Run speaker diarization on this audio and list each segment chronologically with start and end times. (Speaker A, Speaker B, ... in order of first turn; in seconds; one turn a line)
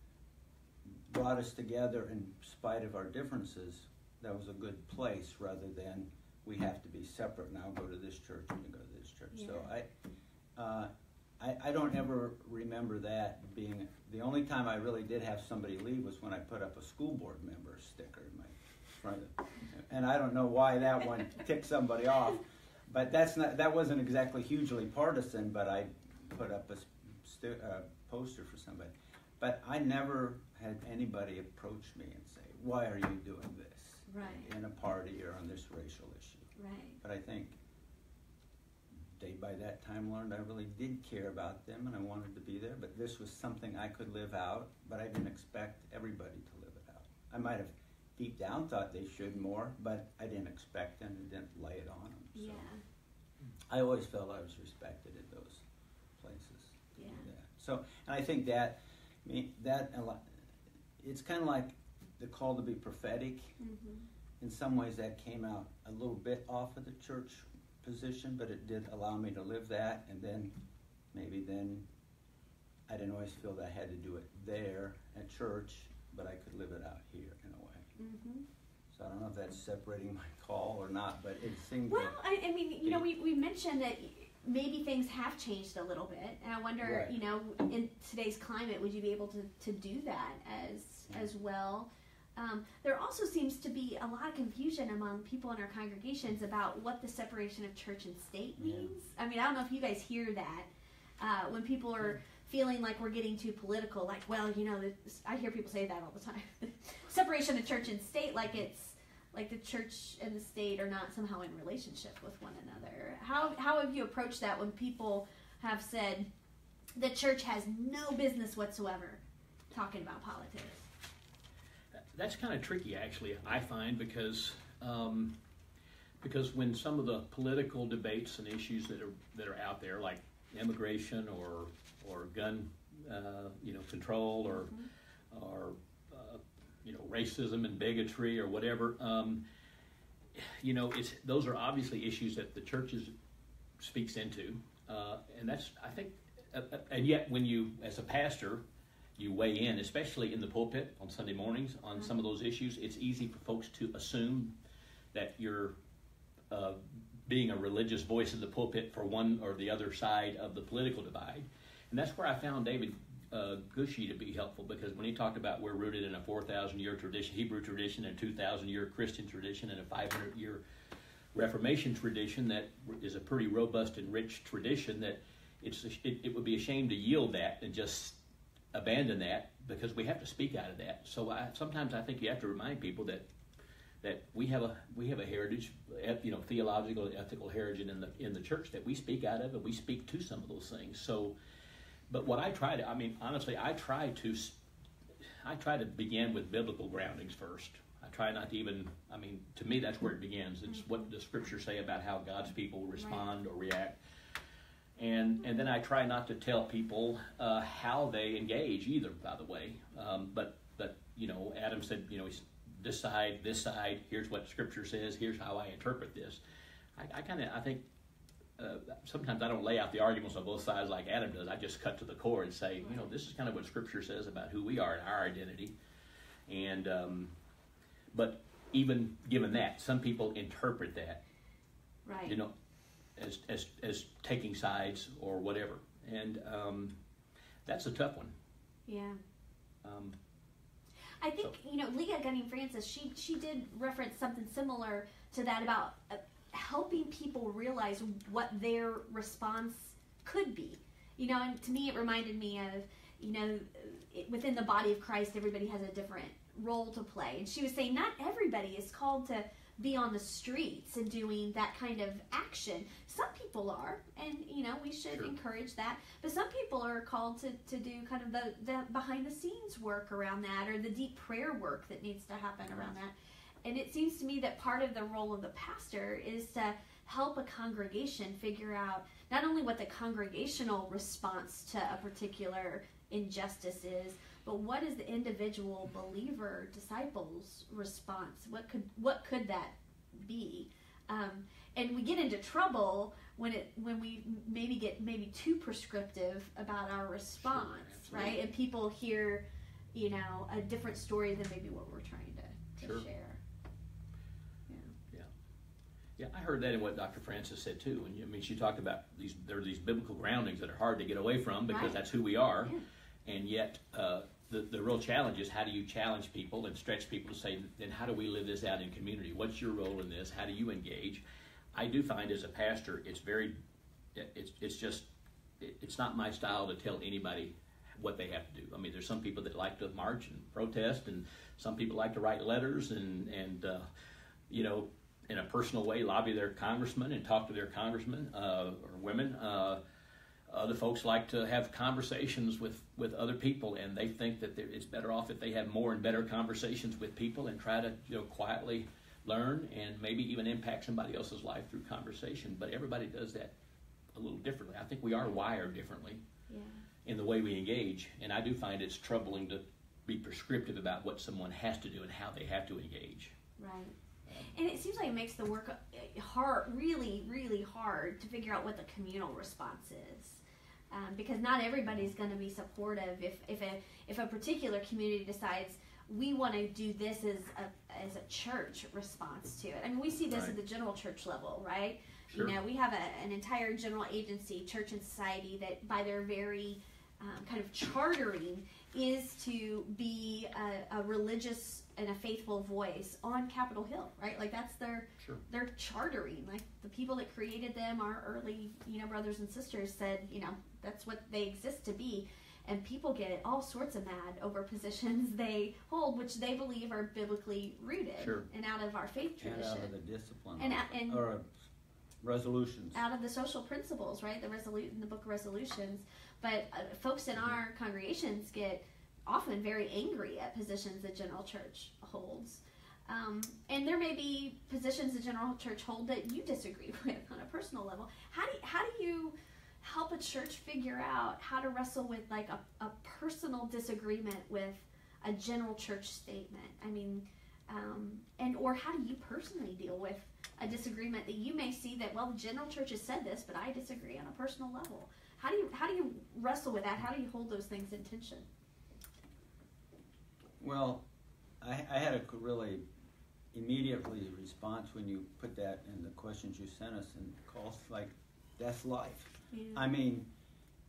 Speaker A: 0.9-9.9
Speaker B: 9.3-9.7
Speaker A: 10.6-36.5
Speaker B: 34.1-34.5
Speaker B: 36.6-37.0
Speaker A: 37.0-37.6
Speaker A: 39.0-52.7
Speaker B: 52.4-52.8
Speaker A: 53.7-55.6
Speaker A: 56.2-60.4
Speaker B: 57.0-57.3
Speaker A: 61.0-63.5
Speaker B: 63.6-64.1
Speaker A: 64.4-70.6
Speaker A: 71.1-71.9
Speaker A: 72.9-77.9
Speaker B: 78.0-78.5
Speaker A: 78.9-82.2
Speaker B: 81.9-100.7
Speaker A: 86.8-87.2
Speaker A: 98.6-98.9
Speaker B: 101.2-116.3
Speaker B: 117.0-120.8
Speaker C: 122.1-125.4
Speaker C: 126.2-134.8
Speaker B: 134.5-134.9
Speaker C: 135.3-139.4
Speaker C: 140.3-143.1
Speaker C: 143.8-148.6
Speaker C: 149.2-154.6
Speaker C: 155.1-155.8
Speaker C: 156.5-170.6
Speaker C: 171.3-178.2
Speaker C: 178.7-183.3
Speaker C: 184.0-191.3
Speaker C: 192.1-194.6
Speaker C: 195.4-204.0
Speaker C: 205.0-216.4
Speaker C: 217.0-217.8
Speaker C: 218.6-225.7
Speaker C: 226.5-227.3
Speaker C: 228.1-231.2
Speaker B: 232.1-232.4
Speaker C: 232.2-232.5
Speaker C: 233.2-237.0
Speaker C: 237.7-238.3
Speaker B: 238.9-239.2
Speaker C: 239.8-240.2
Speaker B: 241.2-273.1
Speaker B: 273.6-303.4
Speaker C: 297.4-298.4
Speaker C: 302.8-303.1
Speaker C: 306.2-312.7
Speaker B: 311.7-312.0
Speaker C: 313.2-323.6
Speaker C: 324.1-325.1
Speaker C: 325.6-333.9
Speaker C: 334.5-339.8
Speaker C: 340.5-353.5
Speaker C: 354.1-356.2
Speaker B: 356.5-356.8
Speaker C: 357.1-363.4
Speaker B: 363.6-409.9
Speaker C: 364.3-364.6
Speaker C: 380.3-380.6
Speaker C: 382.3-382.6
Speaker C: 408.2-408.5
Speaker A: 409.4-411.6
Speaker B: 410.6-411.3
Speaker A: 412.2-413.0
Speaker B: 412.9-448.5
Speaker A: 450.6-451.1
Speaker A: 451.6-452.8
Speaker A: 453.5-460.3
Speaker B: 459.5-459.9